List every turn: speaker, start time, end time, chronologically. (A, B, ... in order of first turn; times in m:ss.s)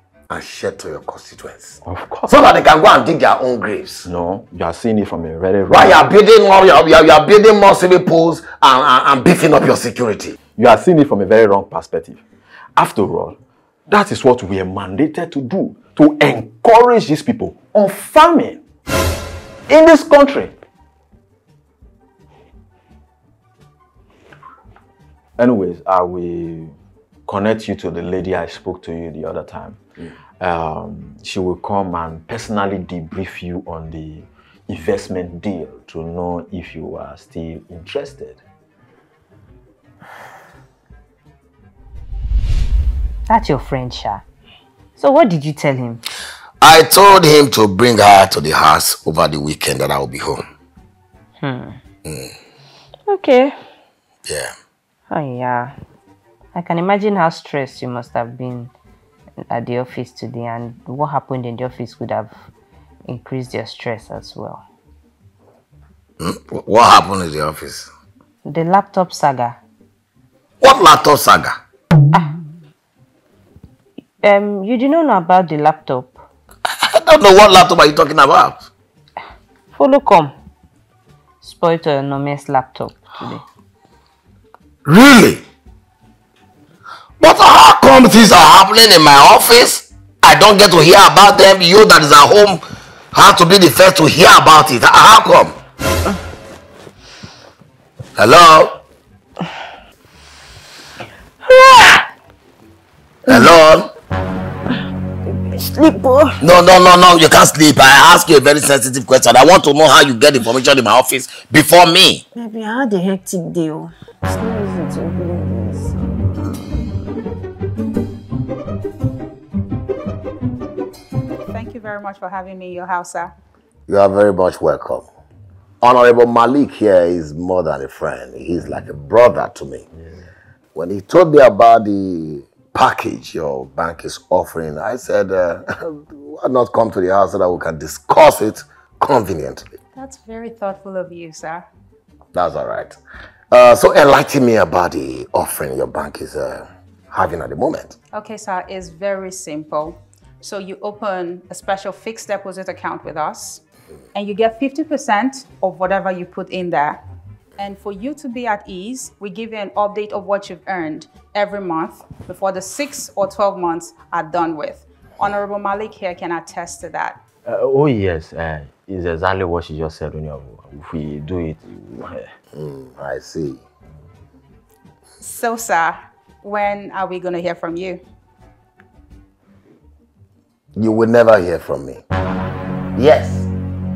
0:00.3-0:04.1 A
0:01.8-0:02.3 B
0:04.1-0:06.0 B
0:05.7-0:10.4 A
0:10.6-0:12.2 B
0:12.8-0:18.6 B
0:19.7-0:20.6 B
0:25.4-0:26.8 B
0:27.3-0:29.8 B
0:30.4-0:38.4 B
0:43.3-0:44.2 C
0:45.0-0:46.0 C
0:46.6-0:50.4 A
0:51.4-0:51.8 C
0:52.0-0:52.3 A
0:53.1-0:53.6 C
0:54.3-0:54.5 A
0:55.1-0:55.8 C
0:56.6-0:58.7 C
0:59.4-1:02.3 C
1:03.1-1:04.6 C
1:06.2-1:07.9 A
1:08.4-1:09.6 C
1:10.6-1:11.6 A
1:14.2-1:16.2 C
1:16.8-1:18.7 A
1:19.7-1:20.4 C
1:21.4-1:23.4 C
1:24.8-1:25.4 A
1:27.2-1:32.6 A
1:33.1-1:35.6 A
1:38.2-1:38.8 A
1:43.3-1:43.9 A
1:46.4-1:52.2 A
1:52.4-1:53.3 D
1:54.3-1:55.9 D
2:01.5-2:03.3 E
2:03.9-2:05.1 A
2:05.8-2:09.9 A
2:10.8-2:19.8 A
2:20.0-2:21.7 E
2:22.3-2:23.0 A
2:23.5-2:28.0 A
2:28.1-2:33.6 E
2:34.1-2:37.0 E
2:37.6-2:47.2 E
2:47.4-2:52.3 B
2:52.5-2:53.6 A
2:55.2-2:58.0 E
3:00.8-3:02.0 A
3:03.0-3:03.5 A